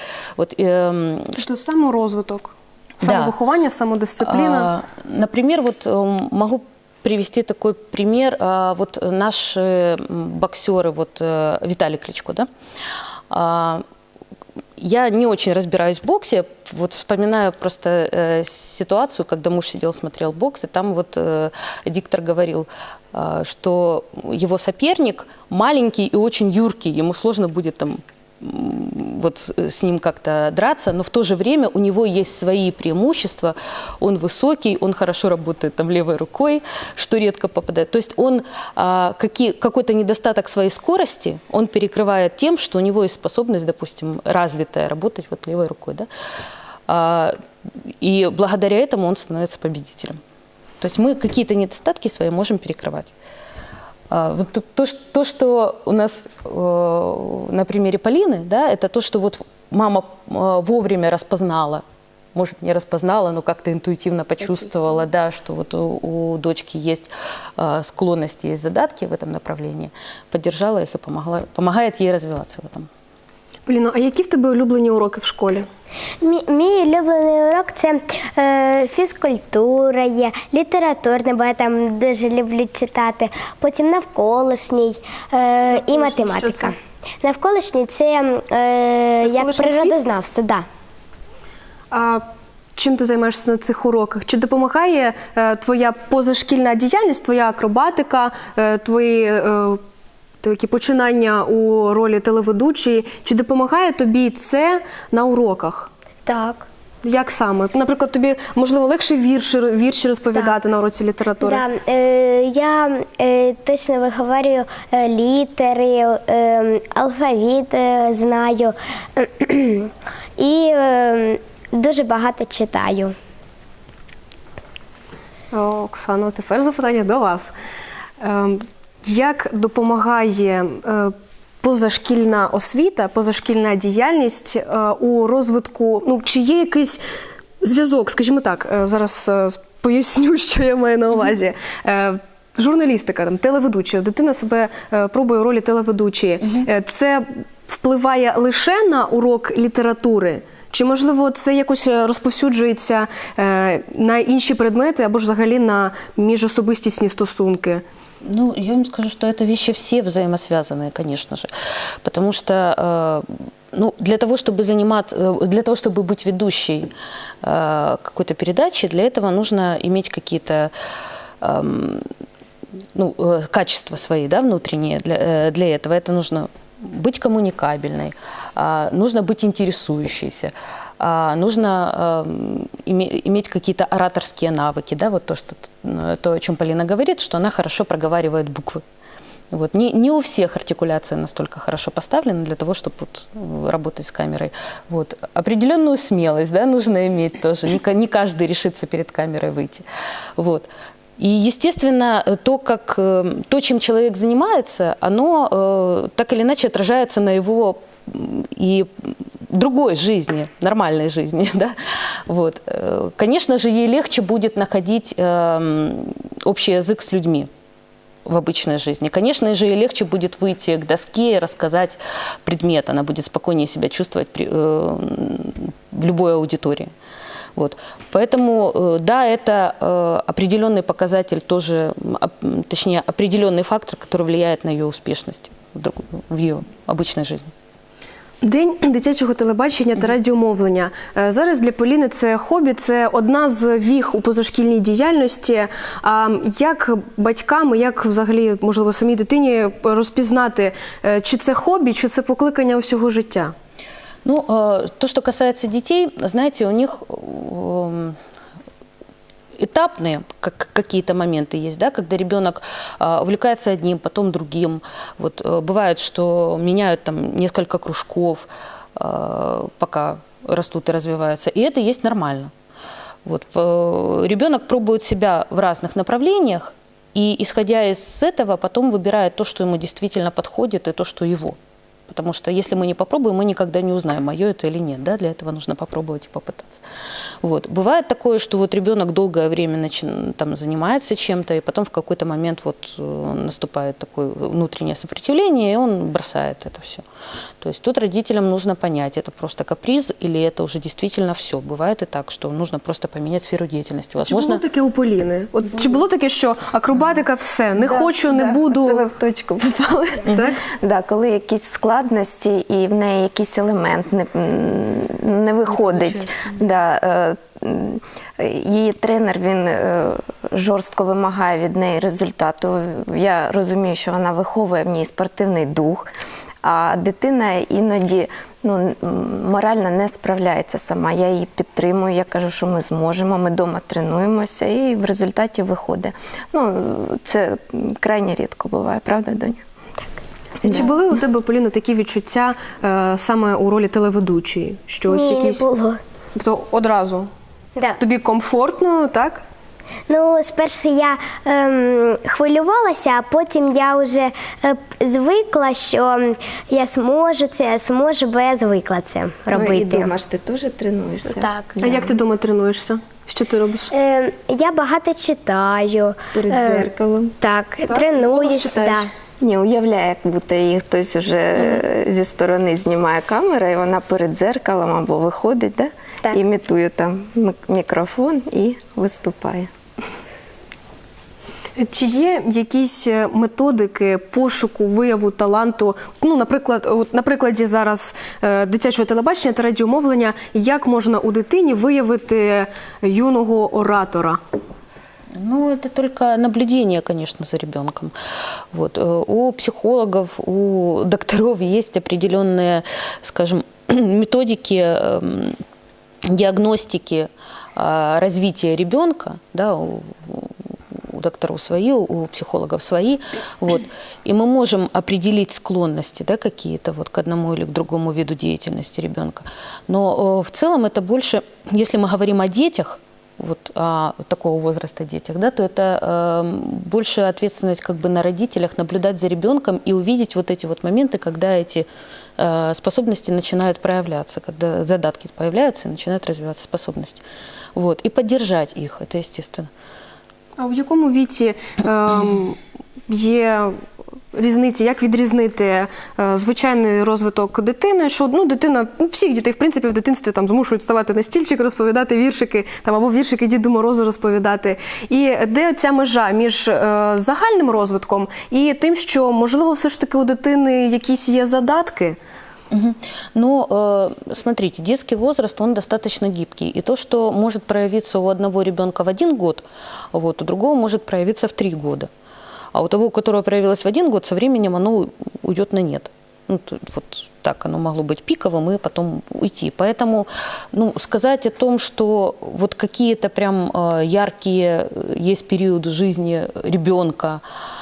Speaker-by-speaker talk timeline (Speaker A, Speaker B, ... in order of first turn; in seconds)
Speaker A: 0.4-1.4, 3.0-3.3, 4.2-12.5, 13.3-13.8, 14.8-46.1, 46.9-50.2, 50.8-53.1, 54.1-61.8, 62.3-72.9, 158.2-161.5, 162.0-166.9, 167.4-170.7, 171.4-172.1, 172.9-188.8, 189.5-199.8, 200.4-217.5, 218.2-226.9, 227.6-237.5, 254.2-258.2, 259.6-272.5, 273.2-281.6, 282.1-286.8, 287.4-297.0, 297.6-304.6, 395.3-398.1, 398.7-405.6, 406.2-431.9, 432.4-437.2, 437.7-439.7, 462.7-472.1, 472.7-487.4
Speaker B: 1.4-4.7, 73.7-75.7, 85.7-86.7, 89.2-90.0, 91.9-92.2, 92.8-99.8, 100.4-105.9, 107.0-111.6, 125.5-127.5, 128.2-137.0, 137.6-157.8, 238.4-253.5, 304.2-309.0, 310.3-310.6, 316.1-316.4, 340.6-345.6, 346.3-347.3, 348.0-349.4, 361.8-363.9, 367.9-369.1, 381.8-394.4, 440.6-443.8, 444.3-462.2
Speaker C: 76.2-90.7, 106.2-106.7, 111.4-123.1, 345.1-346.0, 350.1-360.1, 361.3-361.8, 363.9-366.9, 367.4-369.1
Speaker D: 307.8-326.1, 326.6-339.6, 340.6-340.9, 359.5-362.1, 366.3-367.4, 369.4-379.7